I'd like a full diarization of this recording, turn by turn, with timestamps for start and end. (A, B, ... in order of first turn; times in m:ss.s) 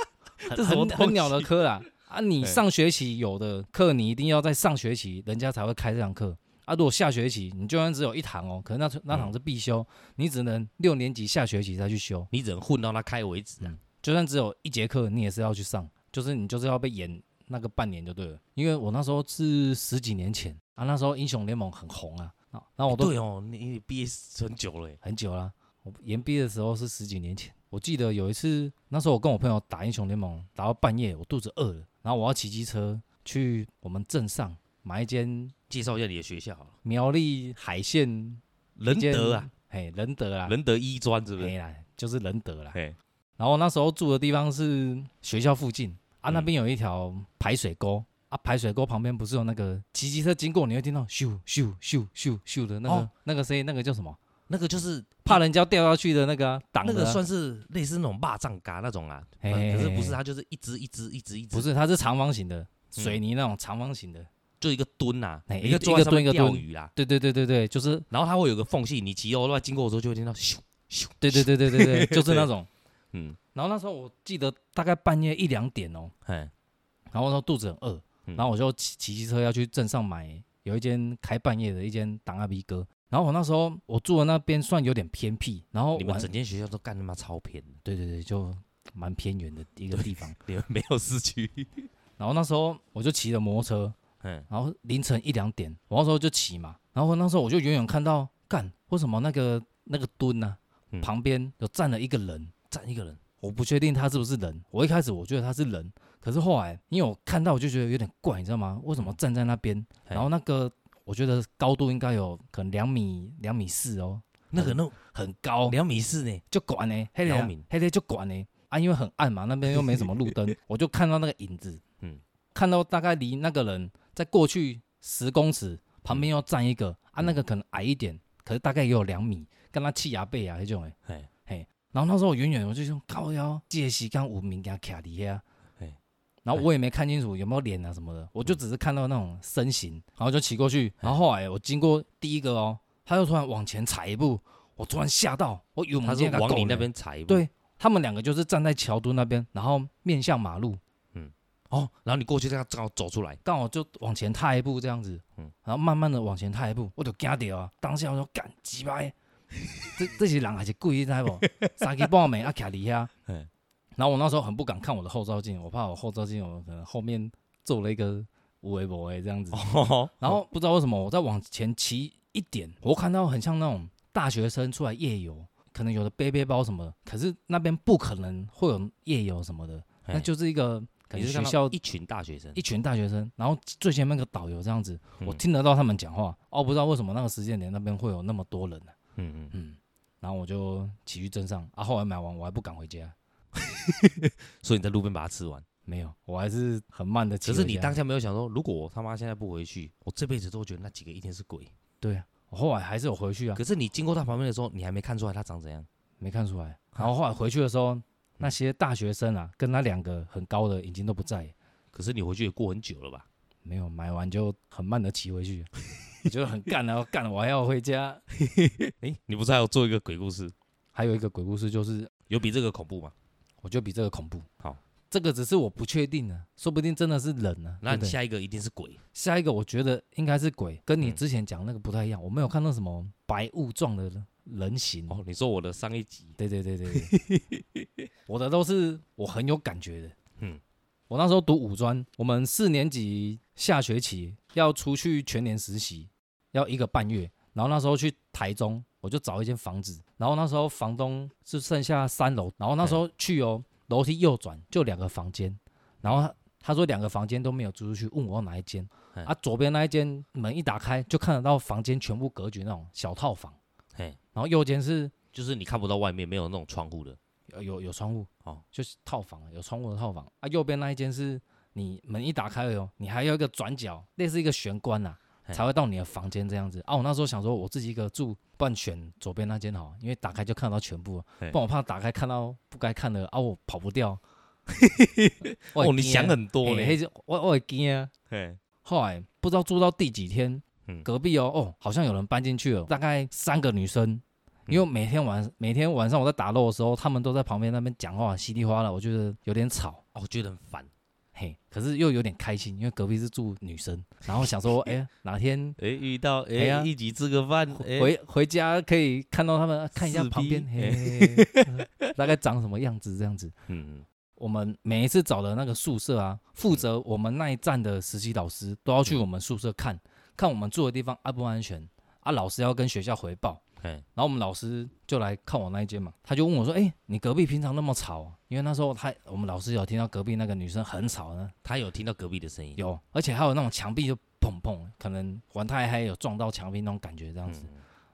0:00.4-0:01.5 A
0:00.5-0:12.3 B
0:12.3-0:13.8 A
0:13.6-0:23.1 B
0:22.9-0:25.0 A
0:25.0-0:35.5 B
0:35.7-0:36.8 A
0:36.8-0:40.6 B
0:38.8-0:39.5 A
0:40.5-0:41.5 A
0:41.4-0:42.8 B
0:43.4-0:54.2 B
0:54.5-0:55.4 A
0:55.3-0:57.2 B
0:56.8-1:01.7 A
0:59.4-1:00.2 B
1:01.5-1:04.3 B
1:04.6-1:06.9 A
1:05.5-1:08.1 B
1:08.1-1:12.5 A
1:11.2-1:12.7 B
1:13.1-1:13.4 A
1:13.5-1:16.1 B
1:16.2-1:16.5 A
1:17.1-1:26.3 B
1:26.0-1:27.8 A
1:27.8-1:30.4 B
1:29.9-1:31.9 A
1:32.2-1:34.0 B
1:34.2-1:34.5 A
1:34.5-1:42.6 B
1:42.7-1:43.2 A
1:43.4-1:55.8 B
1:54.5-1:55.0 A
1:55.7-1:56.4 A
1:56.5-2:01.8 B
1:57.2-1:57.6 A
2:02.5-2:11.0 B
2:11.5-2:15.4 B
2:16.4-2:30.8 B
2:26.0-2:27.4 A
2:31.1-2:33.4 A
2:33.4-2:39.2 B
2:40.0-2:43.1 B
2:41.4-2:41.8 A
2:44.0-2:49.7 B
2:49.5-2:50.4 A
2:50.2-3:01.8 B
3:01.1-3:02.6 A
3:02.6-3:09.0 B
3:09.2-3:09.6 A
3:09.5-3:13.2 B
3:13.6-3:15.6 A
3:15.9-3:18.0 B
3:17.4-3:21.7 A
3:22.0-3:23.6 B
3:23.6-3:25.9 A
3:26.2-3:31.5 B
3:31.9-3:33.3 A
3:33.6-3:35.7 B
3:36.2-3:38.2 B
3:38.4-3:40.5 A
3:40.9-3:42.1 B
3:42.3-3:43.1 A
3:43.6-3:44.5 B
3:45.1-3:48.2 B
3:47.8-3:49.0 A
3:49.1-3:55.2 B
3:55.1-3:56.4 A
3:56.4-3:57.1 B
3:56.9-3:57.9 A
3:58.3-4:00.2 B
4:01.1-4:23.6 B
4:24.4-4:25.2 B
4:25.3-4:27.2 A
4:27.5-4:44.2 B
4:44.7-4:47.0 A
4:45.8-4:48.1 B
4:48.3-4:48.6 A
4:48.8-5:00.0 B
5:00.1-5:00.9 A
5:01.4-5:05.8 B
5:05.8-5:08.1 A
5:06.6-5:06.9 B
5:07.7-5:13.6 B
5:10.0-5:12.1 A
5:13.7-5:14.1 A
5:14.4-5:23.6 B
5:24.2-5:31.5 B
5:31.6-5:32.8 A
5:32.8-5:37.7 B
5:37.5-5:37.8 A